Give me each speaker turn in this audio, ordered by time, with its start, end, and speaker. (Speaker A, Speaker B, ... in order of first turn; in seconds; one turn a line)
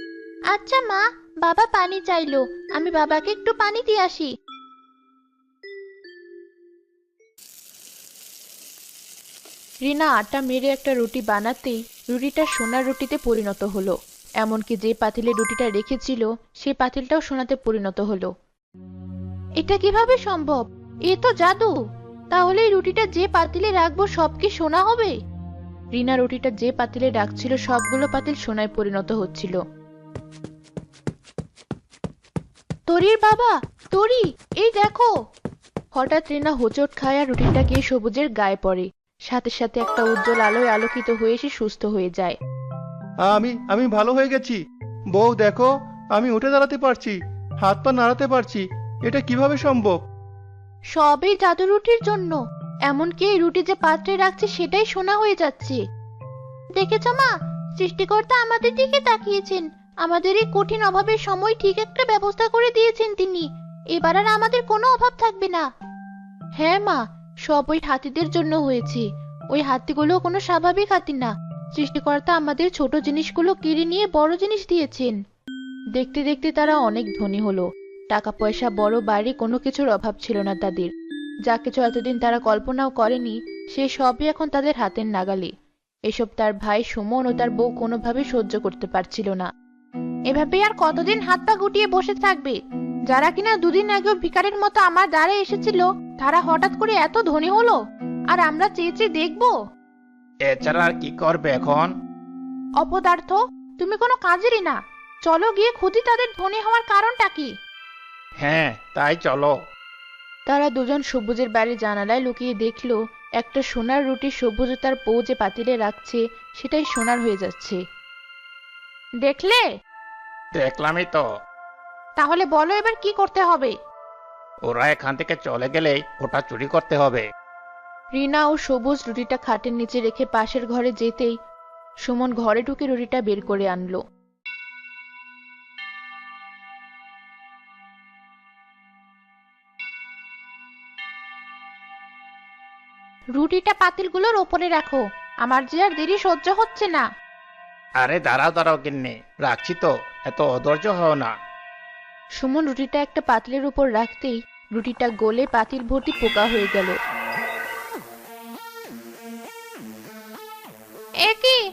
Speaker A: 0.5-4.3
Speaker A: 9.8-18.3
Speaker A: 19.6-21.7
Speaker A: 22.3-25.1
Speaker A: 25.9-29.6
Speaker A: 32.9-35.1
Speaker A: 36.0-42.4
Speaker B: 43.2-44.6
Speaker B: 45.1-50.0
Speaker A: 50.9-55.8
Speaker A: 56.7-65.7
Speaker A: 66.6-75.1
Speaker A: 76.0-80.9
Speaker A: 81.5-85.5
Speaker A: 86.1-89.5
Speaker A: 90.3-92.6
Speaker A: 93.1-97.8
Speaker A: 98.3-99.5
Speaker C: 100.5-101.9
Speaker A: 102.8-107.5
Speaker C: 108.4-109.5
Speaker A: 110.5-117.8
Speaker A: 119.2-119.6
Speaker C: 120.6-121.2
Speaker A: 122.2-123.7
Speaker C: 124.7-127.2
Speaker A: 128.2-131.3
Speaker A: 132.1-134.0
Speaker A: 143.4-147.1
Speaker C: 148.0-151.3
Speaker A: 152.4-156.9
Speaker A: 161.2-161.6